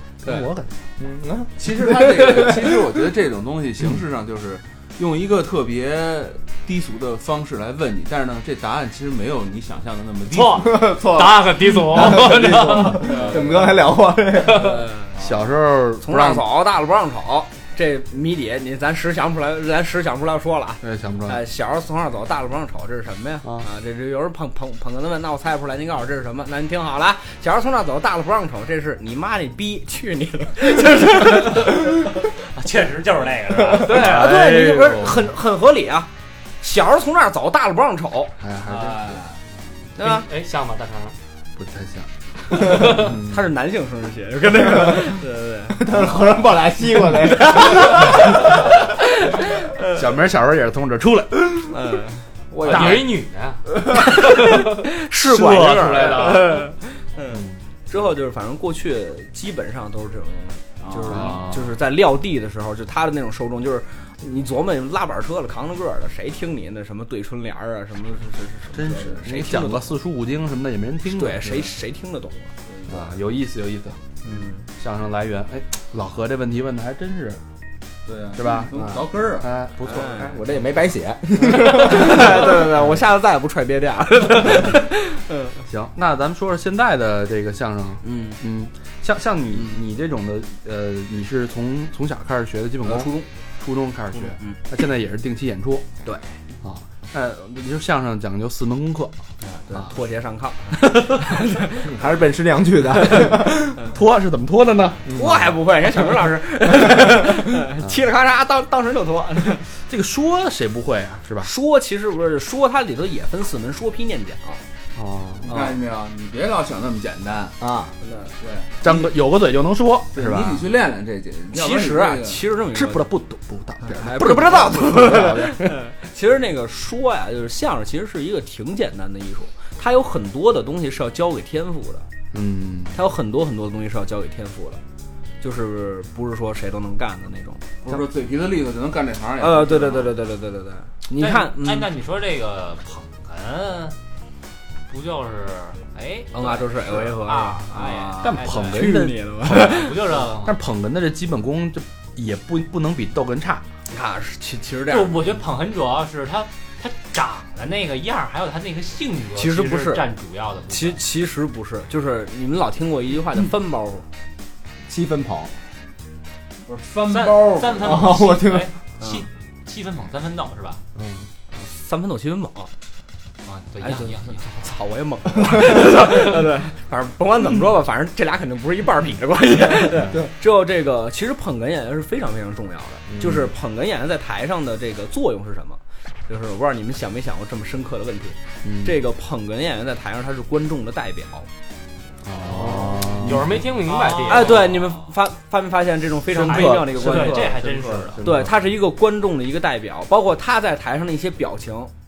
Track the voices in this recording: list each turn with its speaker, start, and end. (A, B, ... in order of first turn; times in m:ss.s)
0:00.2-0:00.7 A
0:01.0-0:02.4 B
0:01.6-0:10.9 C
0:10.3-0:13.1 D
0:10.7-0:14.8 B
0:13.0-0:13.7 C
0:13.2-0:13.4 E
0:14.6-0:15.1 E
0:15.2-0:16.5 A
0:16.0-0:31.8 E
0:20.8-0:21.4 A
0:31.7-0:34.2 F
0:33.8-0:35.3 A
0:33.9-0:36.1 E
0:36.6-0:38.3 E
0:38.4-0:39.2 A
0:38.7-0:39.4 C
0:40.0-0:40.3 E
0:40.0-0:41.2 D
0:41.6-0:43.4 A
0:42.7-0:43.2 D
0:42.9-0:45.9 E
0:45.8-0:48.4 B
0:47.7-0:48.2 E
0:49.9-0:51.7 A
0:51.7-0:53.0 E
0:52.7-0:53.6 D
0:52.7-0:53.0 A
0:53.9-1:09.9 E
0:54.2-0:54.6 D
0:55.2-0:56.6 A
1:00.8-1:01.5 C
1:01.1-1:01.6 A
1:08.7-1:11.7 A
1:11.1-1:12.5 E
1:12.7-1:13.2 C
1:12.9-1:14.0 A
1:14.2-1:14.7 E
1:14.8-1:17.4 A
1:18.1-1:19.5 C
1:18.4-1:20.2 A
1:19.8-1:20.4 E
1:20.1-1:22.6 B
1:21.5-1:25.6 E
1:25.7-1:35.9 A
1:28.0-1:28.4 E
1:32.8-1:33.2 E
1:36.0-1:36.3 E
1:36.6-1:39.2 A
1:39.4-1:41.9 E
1:40.8-1:41.2 A
1:41.8-1:43.7 B
1:43.2-1:45.1 A
1:45.1-1:45.5 B
1:45.1-1:49.6 E
1:49.9-1:51.5 A
1:51.4-1:54.6 E
1:55.0-1:55.5 A
1:55.4-1:57.6 C
1:57.6-1:57.9 B
1:58.0-1:58.3 E
1:58.4-1:59.1 C
1:58.8-2:00.6 A
2:00.1-2:02.5 C
2:01.5-2:03.1 E
2:02.7-2:05.6 A
2:03.8-2:12.1 E
2:04.6-2:05.4 B
2:12.3-2:13.0 A
2:12.9-2:14.8 E
2:15.4-2:18.0 E
2:17.8-2:20.1 C
2:19.4-2:21.9 E
2:21.2-2:24.0 F
2:24.9-2:30.6 F
2:26.3-2:30.0 E
2:28.2-2:33.6 A
2:33.9-2:35.3 E
2:34.9-2:41.0 F
2:39.4-2:40.1 E
2:40.7-2:44.1 E
2:44.9-2:45.5 B
2:46.7-2:48.2 C
2:47.1-2:50.8 F
2:47.8-2:48.7 B
2:49.0-2:49.2 E
2:51.0-2:51.3 B
2:51.5-2:52.7 E
2:53.4-2:54.6 F
2:53.8-3:11.5 E
3:00.0-3:00.3 B
3:03.1-3:03.4 B
3:08.6-3:09.0 A
3:12.2-3:13.7 A
3:12.6-3:13.0 B
3:13.2-3:14.8 D
3:13.8-3:14.7 F
3:14.3-3:17.6 E
3:16.4-3:18.2 F
3:16.4-3:16.8 B
3:18.2-3:18.5 A
3:18.2-3:21.9 E